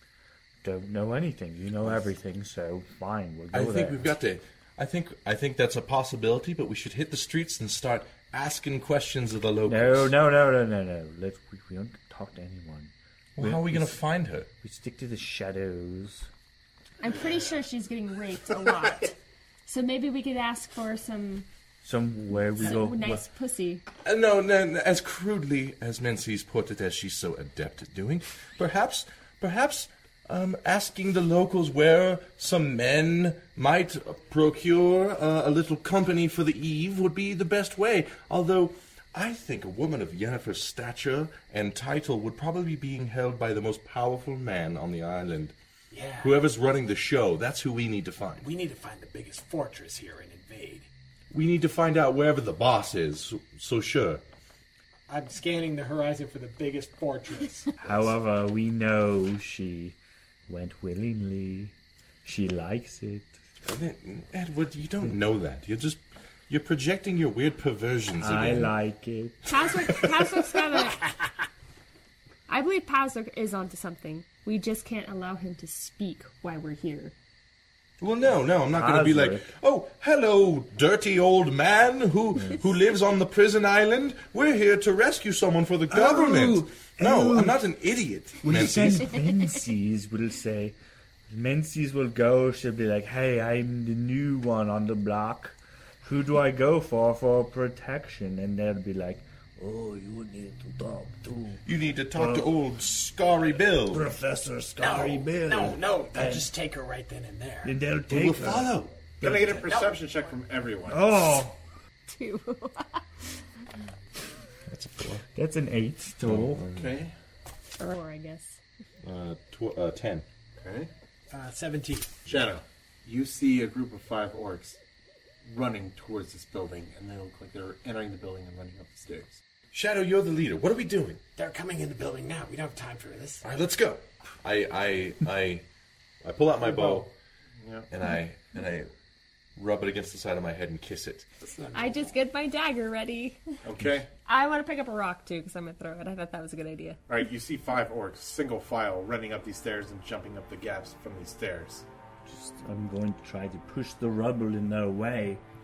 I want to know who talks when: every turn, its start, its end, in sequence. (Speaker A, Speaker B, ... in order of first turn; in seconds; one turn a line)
Speaker A: 0.6-4.1
Speaker B: 3.5-10.1
Speaker A: 9.7-14.0
Speaker B: 13.3-14.5
Speaker A: 14.6-16.3
Speaker C: 17.0-21.4
Speaker A: 21.8-23.2
Speaker C: 22.6-23.8
Speaker B: 24.0-45.5
Speaker D: 45.9-46.4
Speaker B: 46.2-48.5
Speaker D: 48.4-50.9
Speaker B: 51.3-54.2
Speaker D: 55.1-58.1
Speaker A: 57.8-63.4
Speaker B: 63.6-68.7
Speaker A: 68.2-69.5
Speaker C: 69.5-71.1
Speaker C: 72.5-77.1
Speaker B: 78.0-89.1
Speaker A: 78.7-79.5
Speaker A: 85.9-87.6
Speaker A: 88.4-90.8
Speaker A: 91.3-101.6
Speaker B: 101.7-104.1
Speaker A: 102.1-102.5
Speaker A: 103.9-106.5
Speaker D: 104.8-107.8
Speaker A: 107.6-109.6
Speaker B: 108.1-109.0
Speaker E: 109.2-111.2
Speaker D: 109.6-110.0
Speaker A: 110.9-111.5
Speaker C: 112.1-113.0
Speaker B: 114.7-115.2
Speaker A: 115.3-116.6
Speaker B: 116.2-116.9
Speaker E: 116.7-117.1
Speaker C: 117.8-118.6
Speaker B: 119.0-120.2
Speaker E: 120.6-120.9
Speaker D: 121.3-122.2
Speaker E: 122.2-124.8
Speaker E: 125.4-129.4
Speaker B: 129.7-131.2
Speaker D: 131.3-133.4
Speaker B: 133.4-135.7
Speaker B: 136.2-137.1
Speaker E: 137.6-137.9
Speaker B: 137.9-138.9
Speaker B: 139.6-141.2
Speaker D: 141.4-142.2
Speaker C: 141.7-143.4
Speaker E: 143.6-144.1
Speaker C: 144.2-147.0
Speaker E: 147.1-151.8
Speaker A: 152.2-155.4